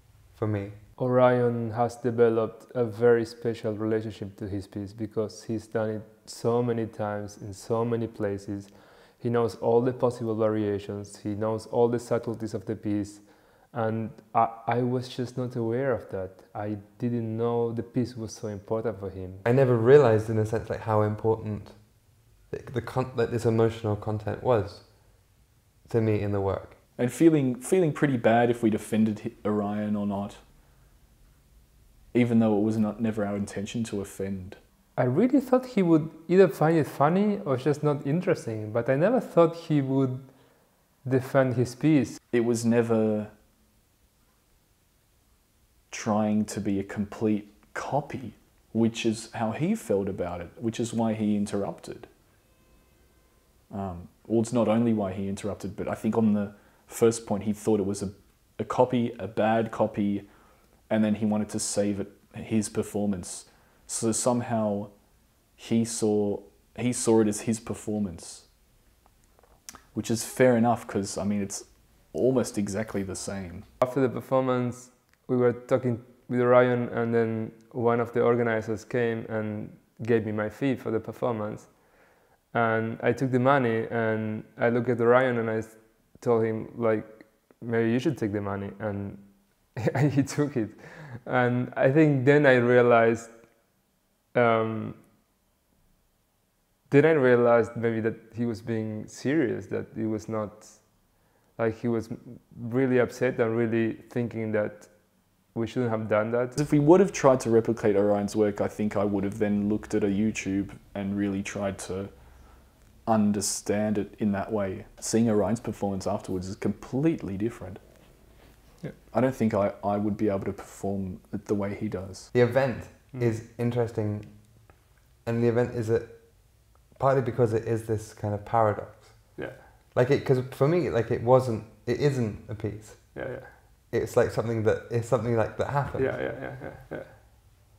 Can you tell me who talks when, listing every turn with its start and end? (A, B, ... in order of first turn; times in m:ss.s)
0:00.3-0:00.8 A
0:01.0-0:19.4 B
0:19.4-0:26.8 A
0:27.0-0:30.4 C
0:32.1-0:34.6 C
0:35.0-0:42.2 B
0:42.3-0:43.3 C
0:45.9-0:52.1 C
0:53.7-1:08.5 C
1:09.9-1:13.7 C
1:13.8-1:33.8 B
1:34.3-1:35.1 B
1:36.9-1:46.6 B
1:46.6-1:57.8 C
1:59.1-2:02.3 C
2:02.3-2:16.3 A
2:09.4-2:09.6 B
2:13.1-2:13.5 B
2:16.0-2:17.1 B